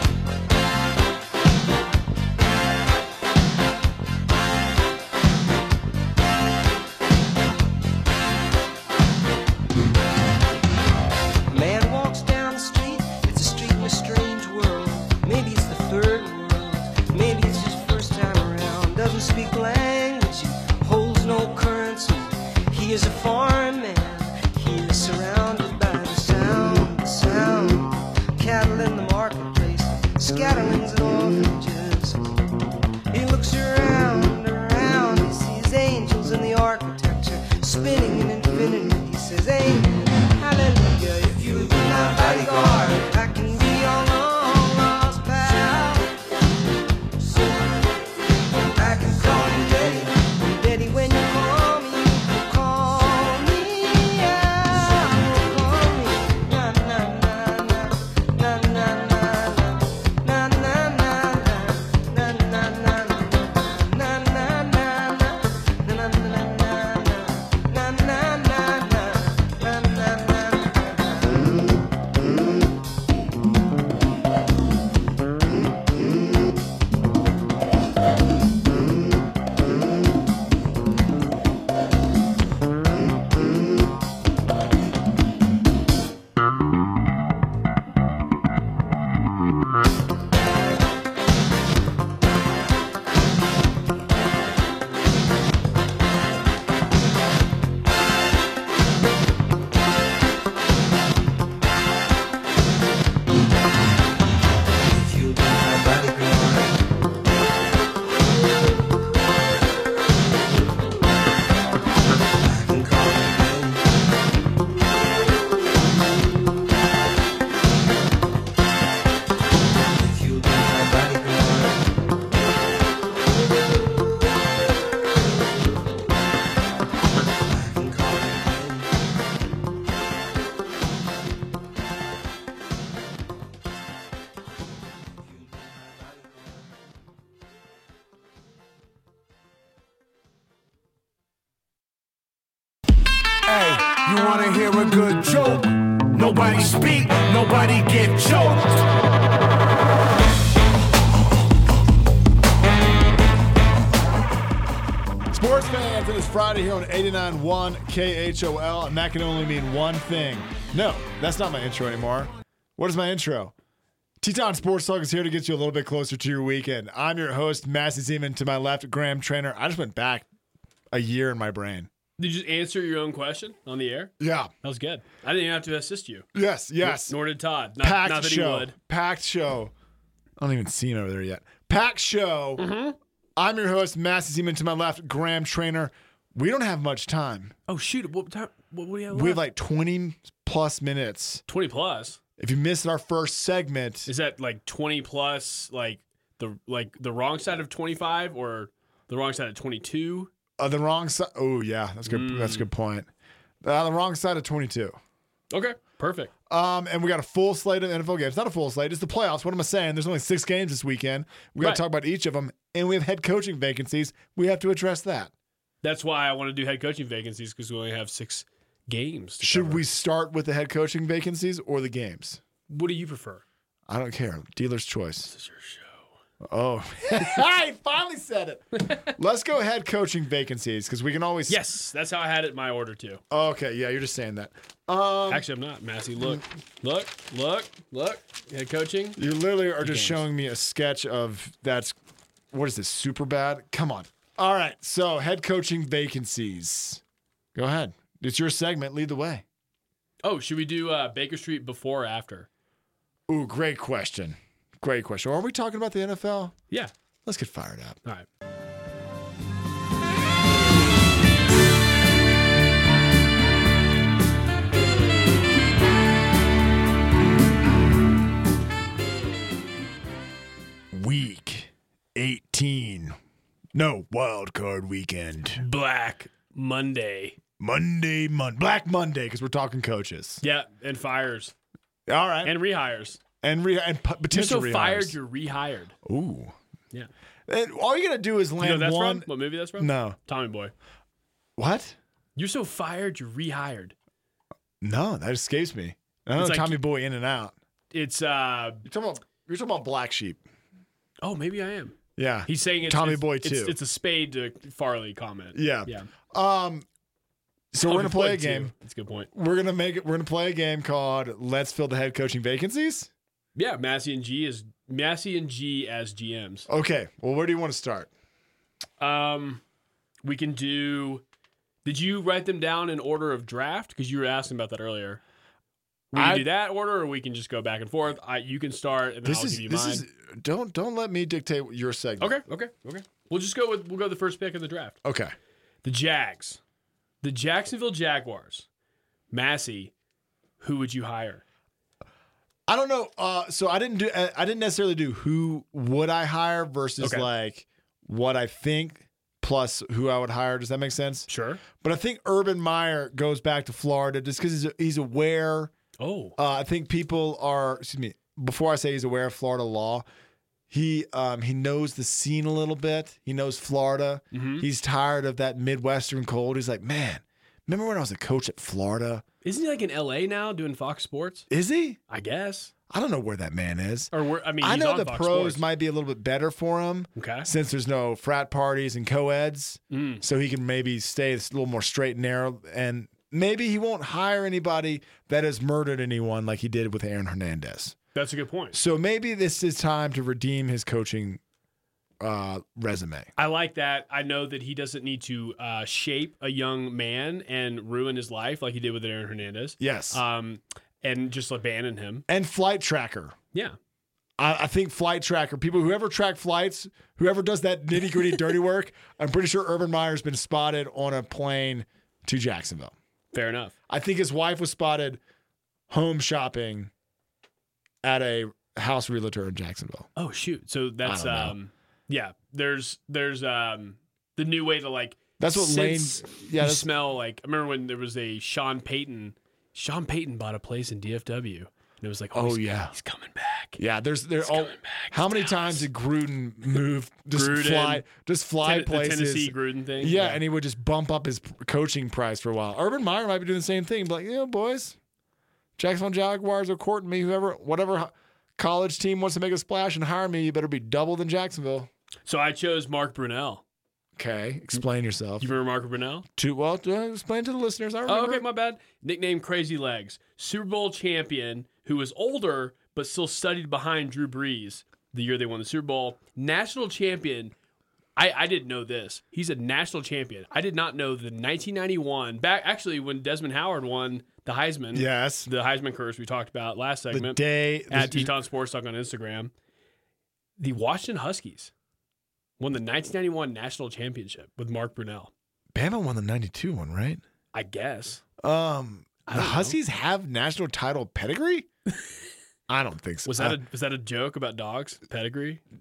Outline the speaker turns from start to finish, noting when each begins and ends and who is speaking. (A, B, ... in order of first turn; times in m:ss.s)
0:11.5-0:32.2 A
0:33.1-0:46.1 A
0:48.8-1:11.5 A
1:44.8-1:46.8 A
1:52.4-1:53.8 A
2:00.0-2:01.9 A
2:07.5-2:08.9 A
2:23.4-2:28.9 B
2:35.3-2:43.5 C
2:44.2-2:50.2 C
2:50.9-2:51.9 C
2:52.2-2:56.3 D
2:54.2-2:54.5 C
2:56.3-2:57.2 C
2:56.8-2:58.7 D
2:57.8-2:59.7 C
3:00.4-3:02.6 C
3:02.6-3:03.0 D
3:03.4-3:07.5 C
3:07.7-3:09.4 D
3:09.1-3:11.4 C
3:11.5-3:12.2 D
3:12.4-3:14.1 C
3:14.0-3:20.3 D
3:20.6-3:23.1 C
3:22.0-3:22.7 D
3:23.6-3:25.0 C
3:25.5-3:26.3 D
3:26.5-3:35.3 C
3:35.8-3:39.8 D
3:39.4-3:42.4 C
3:42.7-3:43.4 D
3:43.9-3:45.3 C
3:45.3-3:46.1 D
3:46.4-3:51.6 C
3:48.8-3:49.1 D
3:51.5-3:53.2 D
3:53.3-3:55.5 C
3:55.3-3:59.2 D
3:59.2-4:01.9 C
3:59.8-4:00.2 D
4:02.5-4:07.0 C
4:07.5-4:09.4 C
4:10.2-4:12.5 D
4:13.3-4:16.5 C
4:17.2-4:18.0 C
4:30.9-4:33.2 C
4:33.7-4:35.6 C
4:35.6-4:37.4 D
4:37.6-4:40.4 C
4:40.4-4:41.5 D
4:42.1-4:42.6 C
4:42.4-4:43.2 D
4:43.4-4:45.2 C
4:44.3-4:46.0 D
4:46.0-4:46.5 C
4:47.5-4:50.2 C
4:48.6-4:50.7 D
4:51.6-4:52.0 C
4:52.4-4:53.9 D
4:54.8-4:57.5 C
4:56.4-4:56.8 D
4:57.9-4:58.8 D
4:58.8-5:00.4 C
5:01.2-5:06.1 D
5:02.2-5:03.8 C
5:05.5-5:06.8 C
5:07.7-5:08.7 C
5:07.8-5:09.3 D
5:09.3-5:13.1 C
5:13.5-5:16.7 D
5:16.7-5:18.1 C
5:19.0-5:19.6 D
5:20.2-5:21.2 D
5:21.8-5:25.2 D
5:26.1-5:26.5 C
5:26.1-5:30.0 D
5:29.2-5:32.4 C
5:32.2-5:35.0 D
5:35.0-5:35.3 C
5:35.8-5:36.6 D
5:37.2-5:38.7 D
5:39.3-5:39.9 D
5:40.6-5:41.4 D
5:42.7-5:55.7 C
5:47.0-5:47.3 D
5:51.3-5:51.6 D
5:56.0-5:56.4 D
5:56.4-6:00.0 C
6:00.7-6:09.2 C
6:04.3-6:04.6 D
6:09.4-6:11.4 D
6:11.5-6:12.0 C
6:12.1-6:12.7 D
6:12.9-6:28.0 C
6:14.1-6:15.6 D
6:17.2-6:17.5 D
6:19.9-6:20.2 D
6:28.1-6:28.8 D
6:28.7-6:31.4 C
6:32.2-6:33.3 C
6:33.4-6:42.2 D
6:39.8-6:40.2 C
6:42.3-6:43.4 C
6:44.4-6:52.9 C
6:53.3-6:53.7 D
6:53.9-6:55.2 C
6:55.9-6:56.9 C
6:58.0-7:00.1 C
7:00.2-7:13.8 D
7:01.0-7:01.6 C
7:05.4-7:06.9 C
7:12.3-7:12.9 C
7:13.8-7:25.0 C
7:14.4-7:15.8 D
7:17.3-7:18.0 D
7:18.6-7:20.4 D
7:25.8-7:31.9 C
7:32.2-7:33.6 D
7:34.2-7:35.5 C
7:35.4-7:36.2 D
7:36.4-7:38.4 C
7:38.1-7:47.5 D
7:48.2-7:59.5 D
7:54.9-7:55.5 C
7:57.1-7:58.3 C
8:00.6-8:01.7 D
8:02.6-8:05.3 D
8:05.7-8:07.2 C
8:07.5-8:08.2 D
8:08.4-8:11.7 C
8:09.2-8:09.8 D
8:12.7-8:13.6 C
8:13.2-8:15.6 D